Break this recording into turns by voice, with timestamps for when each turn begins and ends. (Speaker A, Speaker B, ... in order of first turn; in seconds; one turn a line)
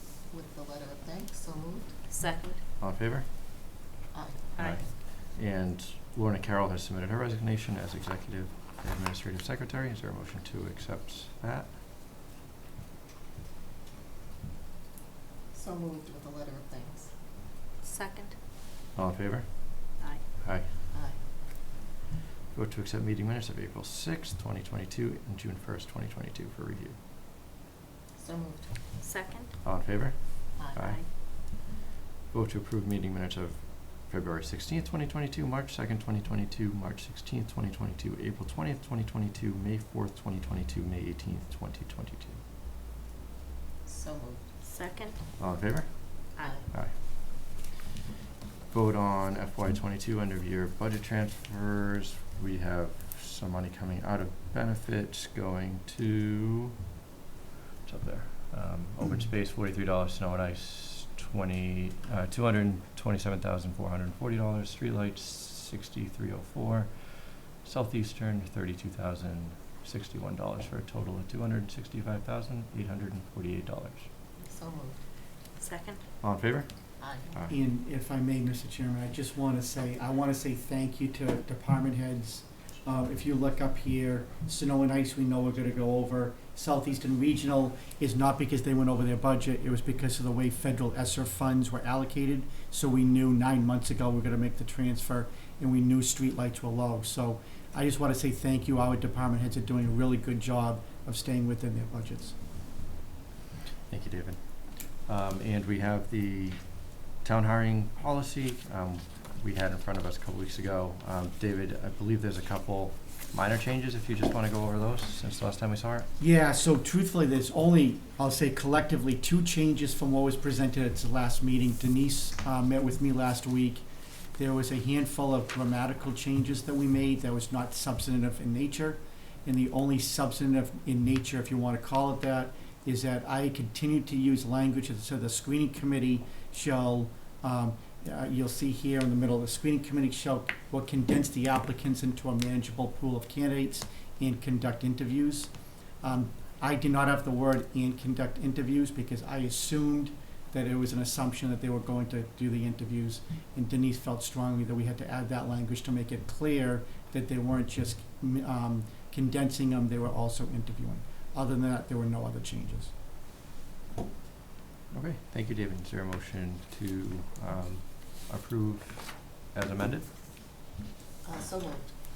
Speaker A: 0.3-1.9
Speaker B: 2.1-2.6
Speaker C: 2.8-3.3
Speaker A: 4.1-4.8
Speaker C: 4.6-11.8
Speaker A: 15.5-17.1
Speaker B: 17.8-18.4
Speaker C: 18.9-19.9
Speaker C: 20.4-20.7
Speaker A: 20.9-21.2
Speaker C: 22.5-27.0
Speaker A: 28.2-29.0
Speaker B: 29.0-29.5
Speaker C: 29.6-31.0
Speaker A: 30.6-30.8
Speaker B: 30.8-31.1
Speaker C: 32.3-42.4
Speaker A: 43.9-44.5
Speaker B: 44.6-45.2
Speaker C: 45.4-47.0
Speaker A: 46.4-46.7
Speaker C: 48.7-56.7
Speaker C: 57.9-74.1
Speaker A: 74.4-75.0
Speaker B: 75.6-76.0
Speaker C: 76.2-76.7
Speaker A: 77.0-77.3
Speaker D: 77.5-102.3
Speaker C: 103.9-104.4
Speaker C: 105.1-106.6
Speaker C: 107.1-116.1
Speaker D: 116.2-123.8
Speaker D: 124.4-145.5
Speaker D: 146.0-162.9
Speaker C: 164.9-170.1
Speaker A: 171.2-171.9